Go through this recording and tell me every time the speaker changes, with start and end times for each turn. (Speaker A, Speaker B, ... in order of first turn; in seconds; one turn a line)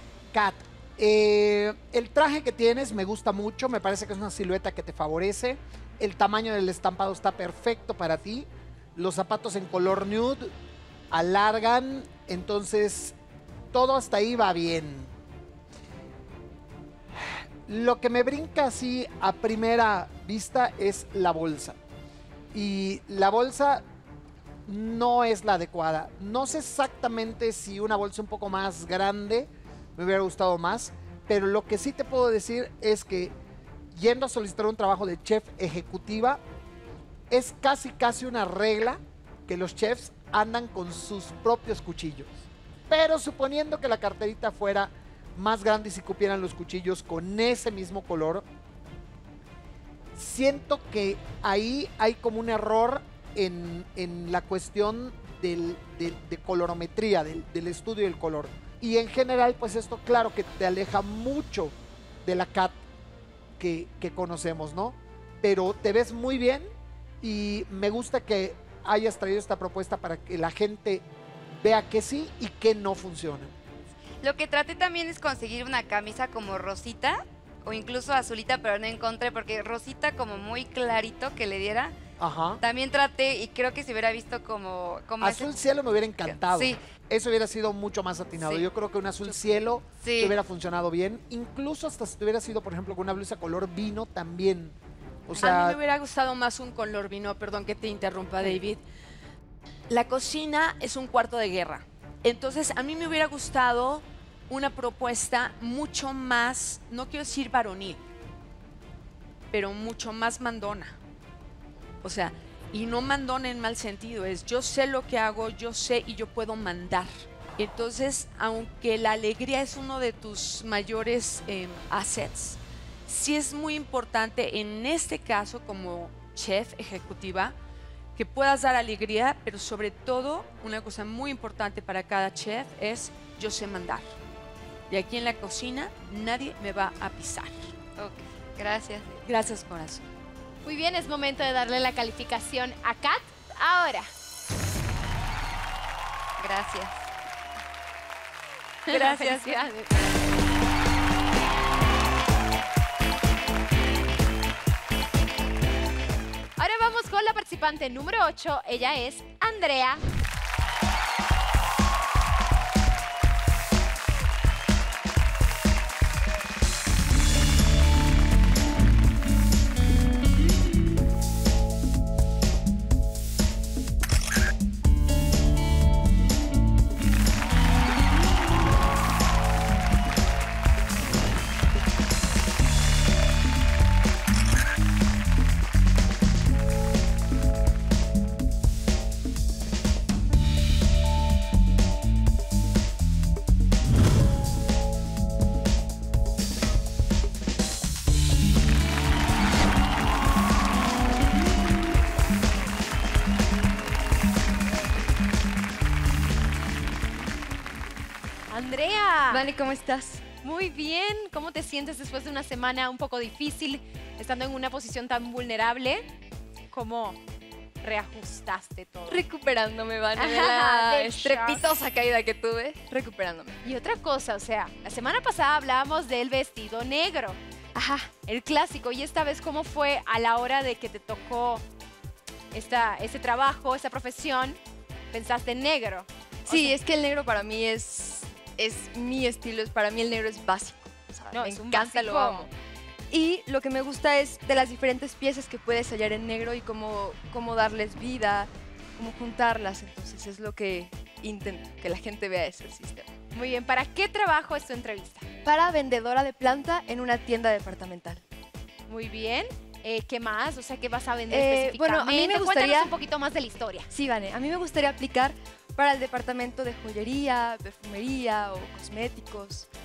Speaker A: 0.3-10.5
Speaker A: 11.1-13.2
Speaker A: 13.7-15.1
Speaker A: 17.2-21.8
Speaker A: 22.5-23.8
Speaker A: 24.7-33.4
Speaker A: 33.9-36.4
Speaker A: 37.3-42.4
Speaker A: 42.9-48.5
Speaker A: 50.1-62.8
Speaker A: 63.6-66.7
Speaker A: 67.2-71.0
Speaker A: 71.6-73.5
Speaker B: 74.2-82.0
Speaker A: 82.2-82.6
Speaker B: 82.6-85.5
Speaker A: 85.2-94.8
Speaker B: 86.2-86.8
Speaker B: 88.4-88.7
Speaker B: 89.3-90.4
Speaker A: 95.3-95.8
Speaker C: 95.4-98.8
Speaker C: 99.9-108.0
Speaker C: 109.5-111.0
Speaker C: 112.0-127.6
Speaker C: 128.2-134.1
Speaker C: 134.9-137.7
Speaker B: 138.0-139.2
Speaker C: 139.3-140.0
Speaker D: 140.7-144.1
Speaker B: 146.4-147.0
Speaker D: 148.9-149.9
Speaker E: 148.9-149.7
Speaker D: 156.6-160.0
Speaker D: 208.5-209.4
Speaker E: 209.3-210.2
Speaker D: 210.4-216.1
Speaker D: 216.7-217.2
Speaker D: 217.8-219.2
Speaker E: 219.1-223.6
Speaker D: 220.2-221.6
Speaker D: 223.6-227.4
Speaker E: 227.7-228.1
Speaker D: 228.2-231.6
Speaker D: 232.5-234.6
Speaker D: 235.1-236.8
Speaker E: 236.5-242.5
Speaker D: 241.3-242.5
Speaker E: 243.1-253.1
Speaker D: 253.3-255.2
Speaker E: 255.4-258.2
Speaker D: 258.9-263.9
Speaker E: 261.3-262.9
Speaker E: 263.9-269.7